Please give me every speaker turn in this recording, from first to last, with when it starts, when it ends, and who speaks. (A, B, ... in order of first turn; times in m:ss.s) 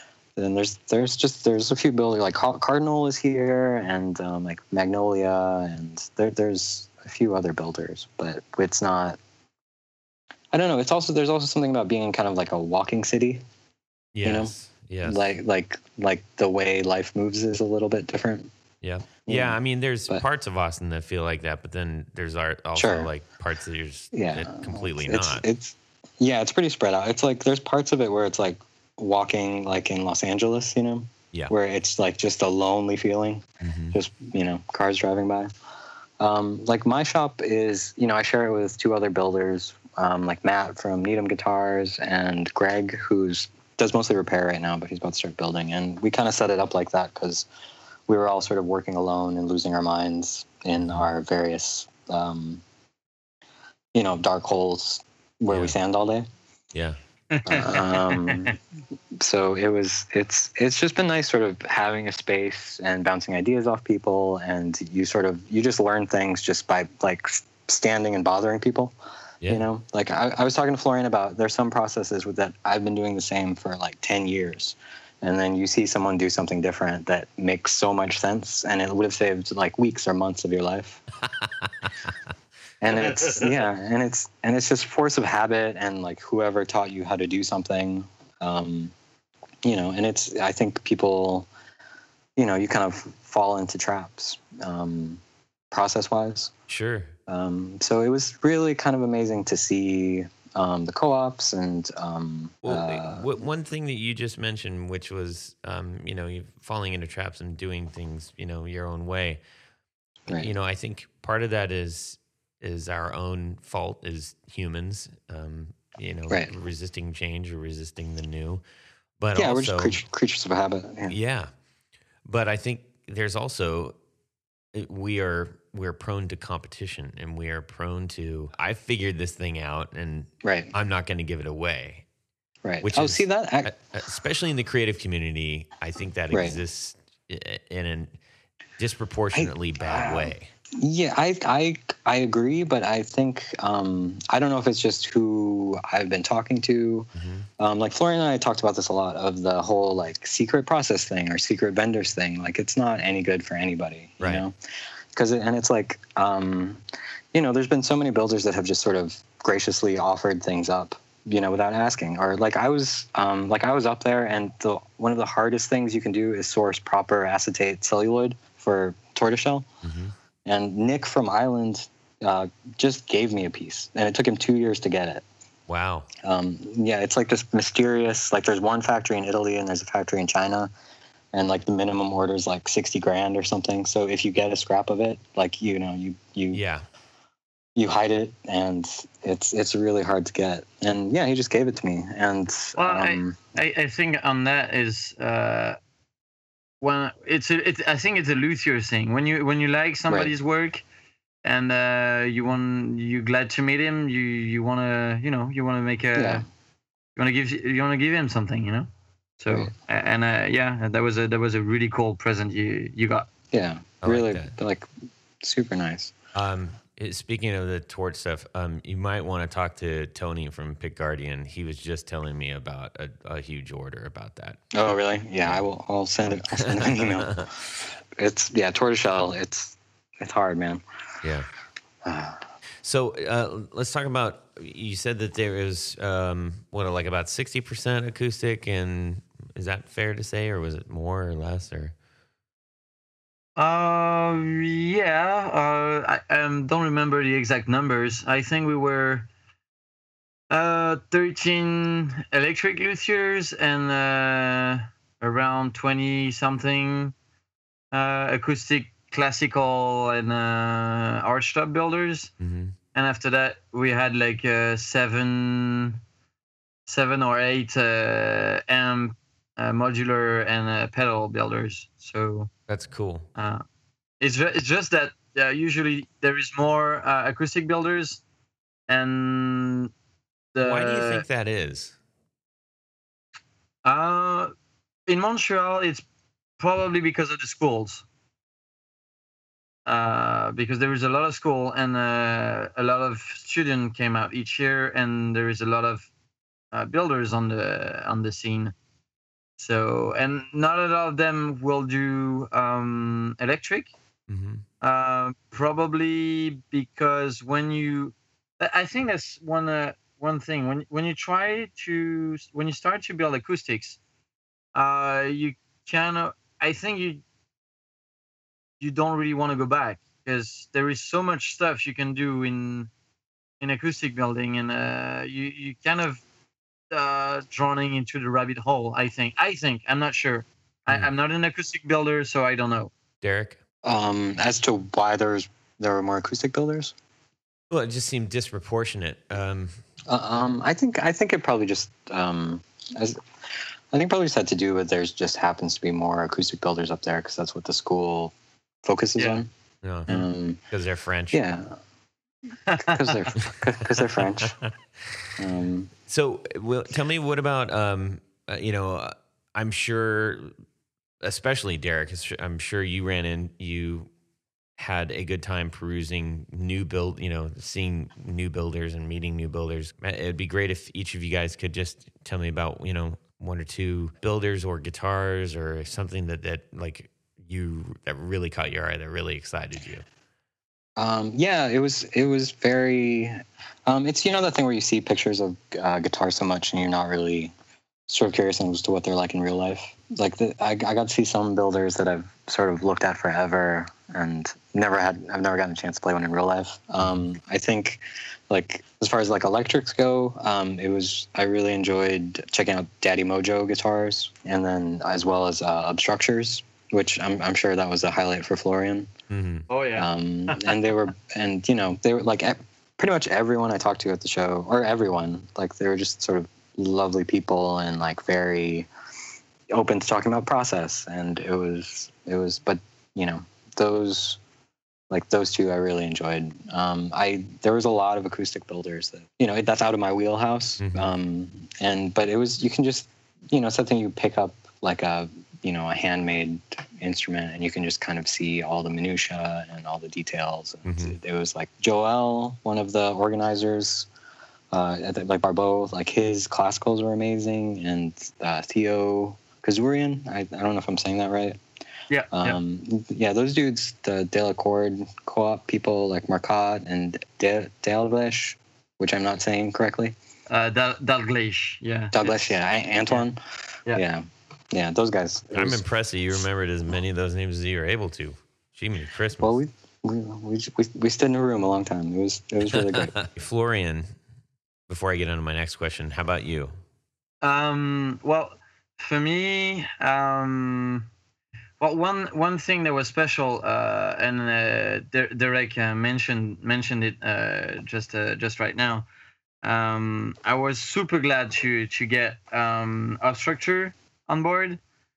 0:00.4-0:09.2 A
0:10.5-0:13.4 A
0:14.1-0:15.2 B
0:14.2-0:14.5 A
0:15.0-0:18.5 A
0:18.8-0:25.4 B
0:19.2-0:20.2 A
0:22.8-0:23.1 A
0:24.1-0:35.5 A
0:33.6-0:34.0 B
0:36.2-0:47.5 A
0:48.1-0:52.6 A
0:53.9-0:56.3 A
0:55.5-0:55.7 B
0:57.3-0:58.5 C
0:57.4-0:58.5 A
0:59.2-1:08.9 A
1:09.5-1:21.0 A
1:22.8-1:28.9 A
1:29.6-1:31.5 A
1:32.4-1:36.5 A
1:36.7-1:37.1 B
1:37.3-1:43.2 A
1:42.6-1:49.4 B
1:50.3-1:58.6 B
1:59.2-2:00.0 B
1:59.3-2:01.2 A
2:01.1-2:01.5 B
2:02.2-2:04.0 B
2:04.7-2:12.0 B
2:10.4-2:10.7 A
2:12.6-2:13.7 A
2:12.8-2:18.1 B
2:16.3-2:16.6 A
2:18.8-2:20.5 B
2:19.3-2:34.5 A
2:27.2-2:27.5 B
2:34.2-2:34.4 B
2:35.1-2:36.8 A
2:37.3-2:49.7 A
2:49.8-2:50.1 B
2:50.4-2:55.2 A
2:55.7-2:56.1 B
2:56.2-3:00.7 A
3:01.3-3:06.6 A
3:06.5-3:06.8 B
3:07.8-3:13.4 A
3:12.8-3:15.8 C
3:16.8-3:20.8 C
3:21.4-3:26.4 C
3:26.1-3:26.4 A
3:27.2-3:28.9 C
3:29.4-3:33.3 C
3:33.5-3:34.9 A
3:34.0-3:34.5 B
3:35.4-3:36.1 A
3:36.3-3:44.7 B
3:44.7-3:47.5 A
3:46.4-3:47.5 B
3:48.2-3:50.8 A
3:52.0-3:52.4 A
3:52.8-4:01.9 B
4:03.6-4:09.3 C
4:10.5-4:17.1 C
4:17.9-4:22.3 C
4:22.4-4:22.7 B
4:22.9-4:26.0 C
4:26.9-4:32.5 C
4:32.7-4:33.3 B
4:33.4-4:33.6 C
4:34.2-4:38.2 C
4:38.9-4:39.9 C
4:40.5-4:41.2 C
4:40.6-4:42.0 B
4:43.8-4:44.5 C
4:45.1-4:46.0 C
4:46.6-4:48.0 C
4:49.8-4:56.1 C
4:56.7-4:58.7 C
4:59.6-5:03.9 C
5:04.3-5:04.6 B
5:04.8-5:14.0 C
5:14.7-5:17.2 C
5:18.8-5:22.9 C
5:23.6-5:26.2 C
5:26.9-5:32.9 C
5:33.2-5:33.6 B
5:33.8-5:36.9 A
5:37.7-5:39.8 B
5:40.0-5:43.2 A
5:43.9-5:48.3 A
5:48.8-5:49.5 A
5:49.2-5:49.4 C
5:49.8-5:51.4 B
5:50.1-5:50.6 A
5:51.3-5:51.8 A
5:52.7-5:53.3 C
5:52.8-5:54.6 A
5:54.4-5:54.7 B
5:55.4-5:55.9 A
5:56.1-6:00.5 B
6:01.2-6:04.1 B
6:04.8-6:20.0 B
6:21.0-6:27.5 A
6:28.1-6:49.1 A
6:49.3-6:49.6 B
6:49.7-6:50.7 C
6:50.0-6:58.9 A
6:59.7-7:04.4 A
7:05.1-7:24.1 A
7:10.8-7:11.1 B
7:20.8-7:21.2 B
7:24.7-7:31.6 A
7:32.1-7:32.6 C
7:32.3-7:40.1 A
7:40.5-7:42.6 C
7:42.1-7:43.4 A
7:43.9-7:45.8 A
7:45.5-7:49.6 B
7:49.4-7:53.2 A
7:52.7-7:54.1 B
7:54.9-7:56.7 B
7:57.4-8:01.1 C
8:01.8-8:09.1 C
8:09.6-8:14.8 C